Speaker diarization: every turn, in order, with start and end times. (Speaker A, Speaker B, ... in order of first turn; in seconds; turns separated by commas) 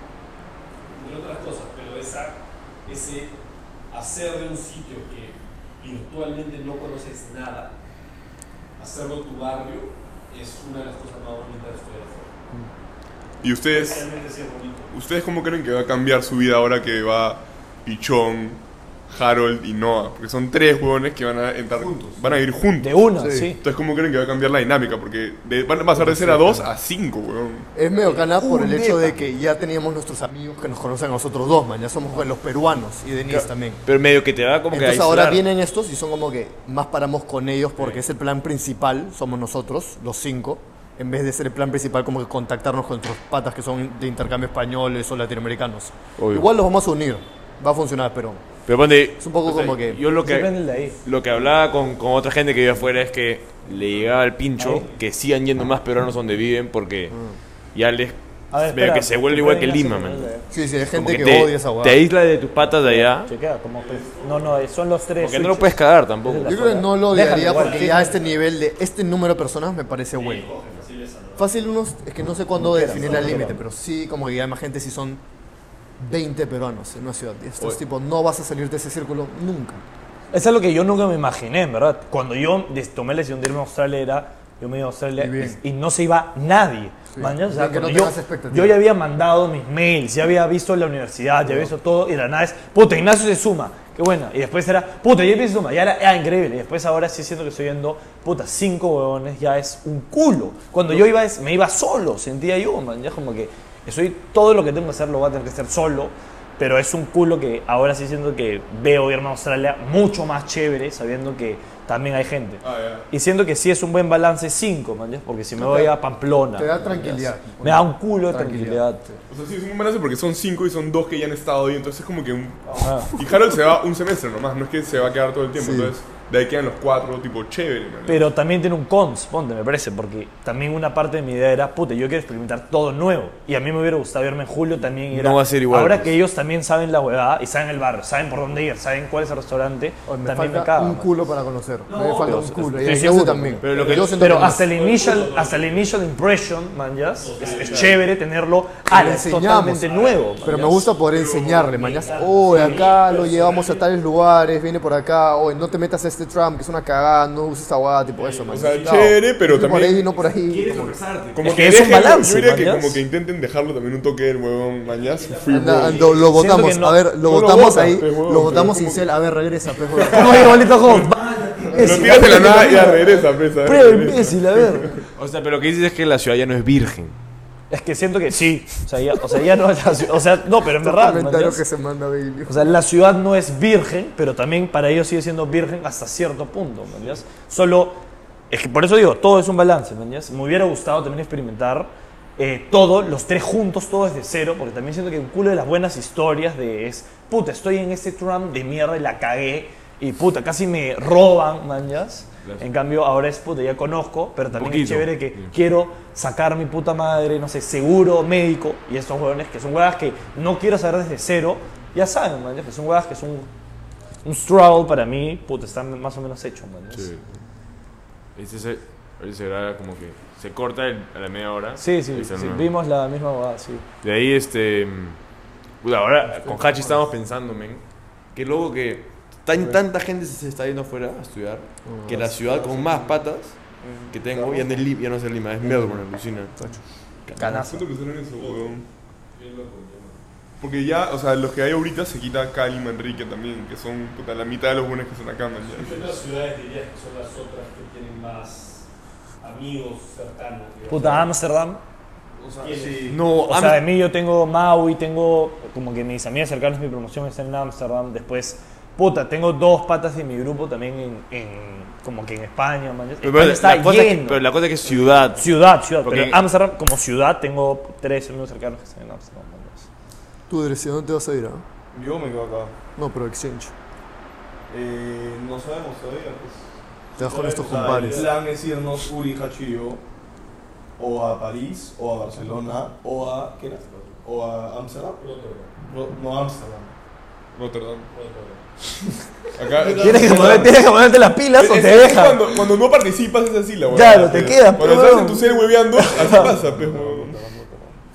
Speaker A: 0.9-3.4, Speaker A: 3.9-7.7, Speaker A: 8.8-12.3, Speaker B: 13.4-14.1, Speaker A: 13.7-14.9, Speaker B: 14.9-23.1, Speaker C: 21.7-22.4, Speaker D: 22.8-23.6, Speaker E: 23.2-23.5, Speaker B: 23.6-27.7, Speaker E: 26.0-26.7, Speaker E: 27.7-33.8, Speaker F: 28.4-29.1, Speaker F: 33.3-35.4, Speaker E: 34.7-48.6, Speaker F: 46.2-46.5, Speaker F: 48.6-57.2, Speaker E: 49.2-50.0, Speaker D: 50.2-51.0, Speaker D: 54.6-54.9, Speaker F: 57.7-60.3, Speaker D: 58.5-60.5, Speaker E: 60.5-62.0, Speaker F: 60.9-63.3, Speaker D: 62.8-68.1, Speaker A: 63.7-64.6, Speaker F: 65.2-66.7, Speaker E: 66.4-70.6, Speaker A: 67.3-68.4, Speaker A: 70.1-71.6, Speaker E: 71.4-75.2, Speaker D: 72.6-73.6, Speaker A: 73.0-73.3, Speaker E: 76.0-79.8, Speaker D: 80.3-119.0, Speaker E: 85.2-85.6, Speaker E: 87.1-88.8, Speaker E: 91.4-91.7, Speaker B: 112.6-113.1, Speaker E: 115.6-115.9, Speaker E: 116.5-119.2, Speaker B: 119.3-128.3, Speaker C: 122.6-123.1, Speaker D: 122.8-123.1, Speaker E: 125.5-125.9, Speaker D: 128.1-141.2, Speaker F: 135.1-136.1, Speaker E: 140.1-144.6, Speaker A: 141.9-142.4, Speaker F: 142.2-142.8, Speaker D: 142.5-150.9, Speaker F: 143.6-144.2, Speaker A: 143.7-145.9, Speaker A: 147.2-148.0, Speaker E: 148.9-161.0, Speaker A: 149.8-150.4, Speaker B: 151.1-151.7, Speaker A: 151.5-153.8, Speaker A: 158.2-159.1, Speaker B: 158.5-160.1, Speaker F: 160.3-161.6, Speaker B: 161.3-166.1, Speaker D: 161.4-163.0, Speaker A: 164.8-166.4, Speaker E: 165.5-170.6, Speaker D: 166.3-167.1, Speaker B: 167.2-169.1, Speaker B: 169.9-171.1, Speaker D: 170.1-174.9, Speaker B: 171.7-175.0, Speaker E: 171.9-172.8, Speaker F: 175.2-177.2, Speaker D: 177.7-181.6, Speaker E: 180.8-182.7, Speaker D: 182.5-213.5, Speaker F: 204.5-205.5, Speaker D: 214.2-217.1, Speaker F: 216.9-217.2, Speaker F: 218.3-222.7, Speaker D: 221.8-223.8, Speaker F: 224.0-225.2, Speaker F: 225.8-227.8, Speaker F: 228.3-233.6, Speaker E: 231.8-232.3, Speaker C: 232.1-233.3, Speaker F: 234.1-236.6, Speaker C: 234.2-234.9, Speaker E: 235.6-236.0, Speaker D: 237.3-237.9, Speaker B: 237.4-238.8, Speaker A: 238.3-240.2, Speaker B: 240.6-246.2, Speaker A: 245.6-248.8, Speaker A: 249.4-251.3, Speaker D: 250.9-251.8, Speaker C: 252.4-253.2, Speaker A: 252.6-253.1, Speaker F: 253.1-253.8, Speaker D: 253.3-264.4, Speaker F: 263.2-266.4, Speaker C: 264.8-265.3, Speaker D: 265.4-269.9, Speaker E: 270.5-271.6, Speaker C: 271.9-272.7, Speaker E: 272.9-273.7, Speaker C: 274.7-280.0, Speaker E: 277.2-278.3, Speaker A: 277.2-278.3, Speaker C: 281.0-285.2, Speaker A: 285.2-285.7, Speaker C: 285.9-286.9, Speaker B: 287.6-288.1, Speaker A: 288.1-288.6, Speaker B: 289.6-290.8, Speaker A: 289.7-290.7, Speaker C: 289.9-290.7, Speaker D: 290.0-292.4, Speaker B: 291.5-297.4, Speaker D: 293.9-296.5, Speaker C: 296.1-298.0